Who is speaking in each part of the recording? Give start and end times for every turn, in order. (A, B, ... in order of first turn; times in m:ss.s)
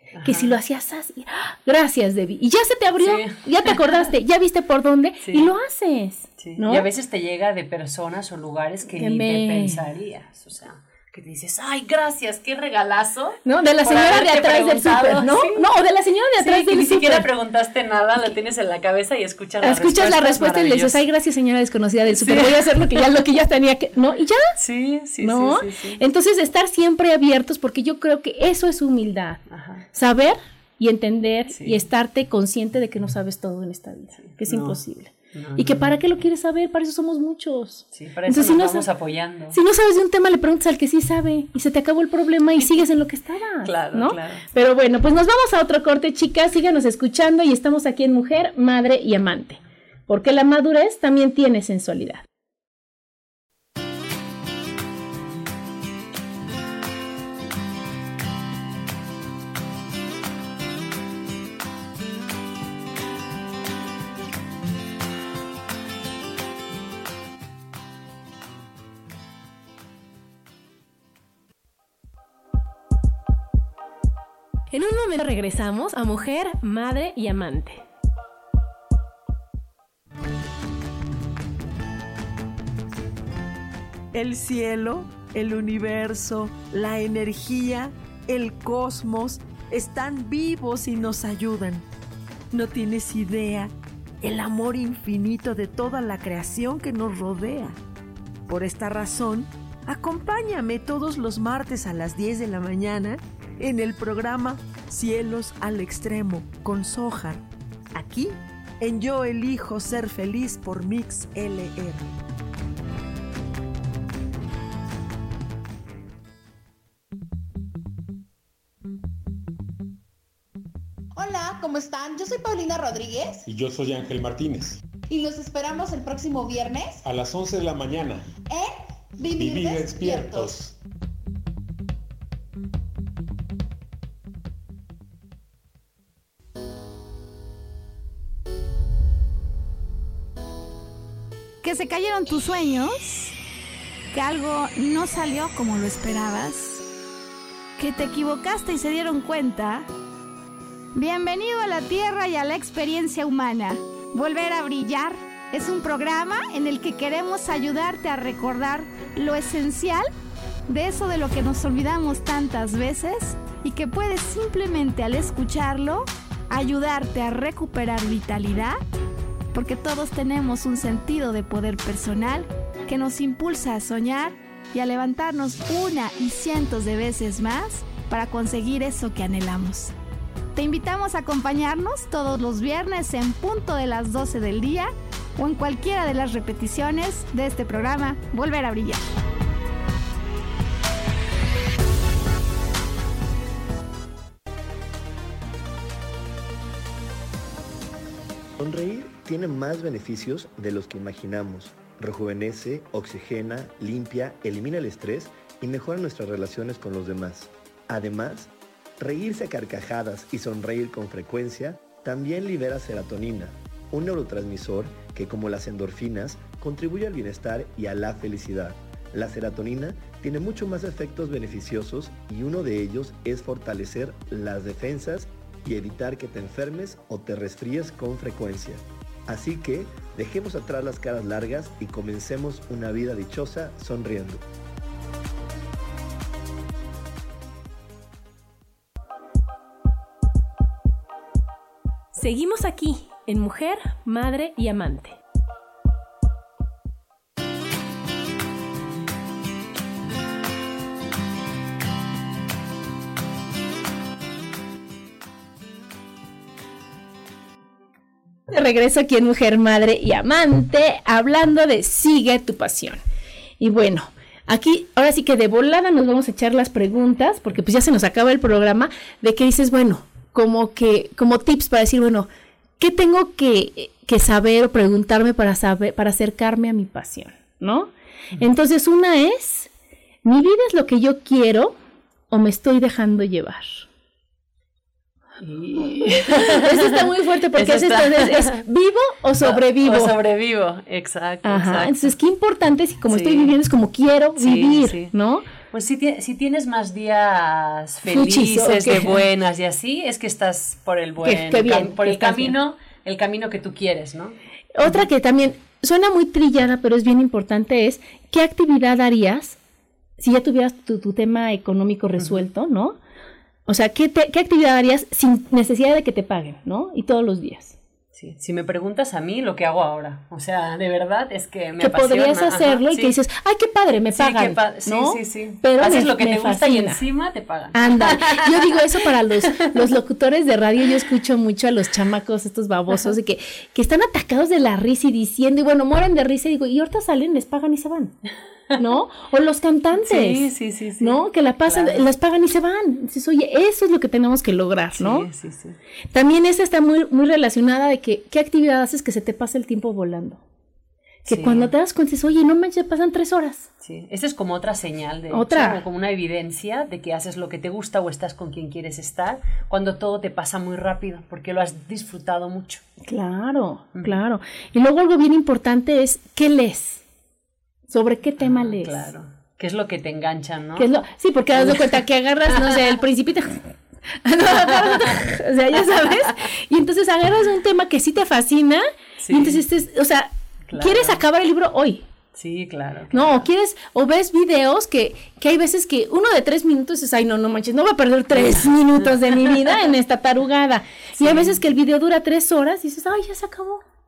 0:00.2-0:00.6 A
0:00.2-0:06.9 B
0:03.0-0:04.1 A
0:05.2-0:05.5 A
0:06.4-0:15.7 A
0:09.0-0:09.8 B
0:13.4-0:17.3 B
0:16.4-0:21.0 A
0:19.6-0:24.5 B
0:22.1-0:22.9 A
0:24.6-0:26.0 A
0:25.2-0:29.4 B
0:29.5-0:29.8 A
0:29.9-0:38.9 B
0:31.5-0:31.8 A
0:34.2-0:34.8 A
0:35.3-0:36.0 A
0:37.9-0:39.6 A
0:39.5-0:52.2 B
0:42.6-0:42.8 A
0:43.6-0:44.4 A
1:14.7-1:17.8 B
1:24.1-1:31.8 C
1:32.5-1:37.8 C
1:38.5-1:47.4 C
1:47.9-1:52.0 C
2:01.2-2:03.5 D
2:03.5-2:04.8 E
2:05.1-2:07.0 D
2:07.0-2:08.3 E
2:08.4-2:10.6 D
2:09.3-2:10.7 E
2:21.6-2:23.3 F
2:24.1-2:26.8 F
2:27.8-2:29.8 F
2:30.9-2:40.1 F
2:40.7-2:48.8 F
2:49.5-2:59.9 F
3:00.5-3:09.1 F
3:18.6-3:54.4 G
4:02.1-4:05.2 B
4:18.5-4:23.0 B
4:23.6-4:32.3 B
4:32.8-4:39.7 B
4:40.2-4:41.8 B
4:42.3-4:43.9 B
4:45.4-4:48.6 A
4:45.8-4:50.1 B
4:49.4-4:52.1 A
4:51.4-4:55.5 B
4:53.0-4:53.6 A
4:54.4-4:55.1 A
4:55.7-5:05.0 A
4:58.1-4:59.2 B
5:01.2-5:02.6 B
5:04.7-5:09.6 B
5:10.2-5:13.0 B
5:12.2-5:12.4 A
5:13.7-5:17.8 B
5:18.1-5:23.1 A
5:21.8-5:27.0 B
5:24.1-5:28.8 A
5:27.7-5:38.1 B
5:38.8-5:40.5 B
5:40.0-5:42.1 A
5:41.0-5:45.3 B
5:45.0-5:45.8 A
5:46.1-5:50.4 B
5:51.2-5:51.7 A
5:51.3-5:53.7 B
5:53.8-6:02.8 A
5:55.3-5:55.8 B
6:03.0-6:07.0 B
6:07.9-6:09.1 B
6:08.4-6:10.9 A
6:10.8-6:13.7 B
6:11.5-6:12.8 A
6:14.2-6:22.0 B
6:14.6-6:15.2 A
6:19.2-6:19.6 A
6:20.7-6:21.2 A
6:22.3-6:23.5 A
6:23.1-6:33.8 B
6:28.3-6:29.0 A
6:31.2-6:31.6 A